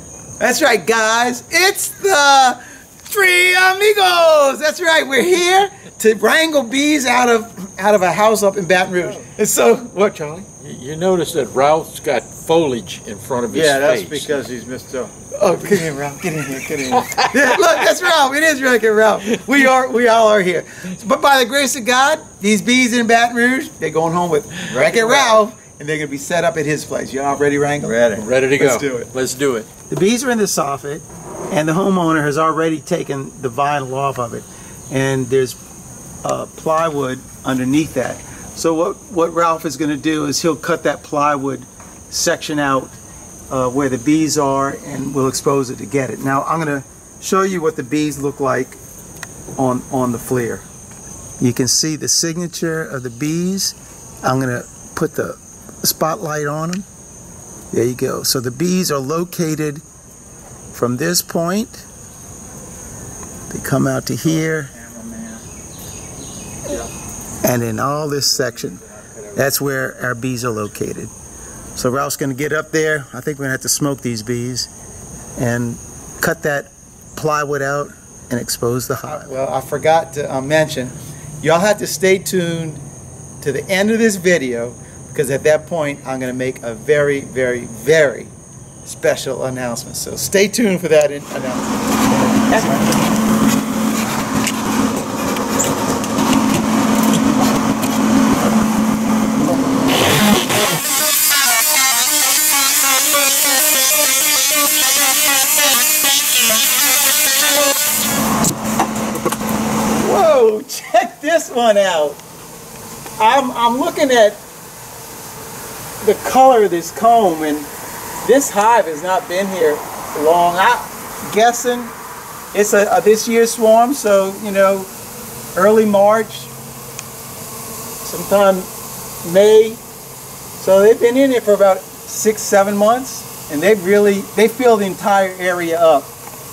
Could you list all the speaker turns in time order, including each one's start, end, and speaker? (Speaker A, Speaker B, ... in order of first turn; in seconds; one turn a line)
Speaker A: 0.4-10.4
Speaker B: 10.6-14.4
Speaker C: 13.5-17.1
Speaker A: 15.3-28.0
Speaker C: 24.7-25.4
Speaker C: 27.8-28.3
Speaker B: 28.1-29.7
Speaker A: 28.6-29.1
Speaker A: 29.9-35.6
Speaker A: 36.2-42.9
Speaker A: 43.5-48.8
Speaker A: 49.6-50.6
Speaker A: 51.4-56.9
Speaker A: 57.7-59.8
Speaker A: 60.7-61.9
Speaker A: 63.5-64.7
Speaker C: 64.7-65.4
Speaker A: 67.4-68.8
Speaker C: 68.6-69.2
Speaker A: 69.3-71.1
Speaker A: 71.8-74.7
Speaker A: 75.4-82.8
Speaker A: 83.4-88.3
Speaker A: 88.8-93.0
Speaker A: 110.0-112.2
Speaker A: 113.2-114.4
Speaker A: 116.0-117.7
Speaker A: 118.2-121.9
Speaker A: 122.5-124.9
Speaker A: 125.5-126.5
Speaker A: 128.0-128.7
Speaker A: 129.2-129.8
Speaker A: 130.6-136.1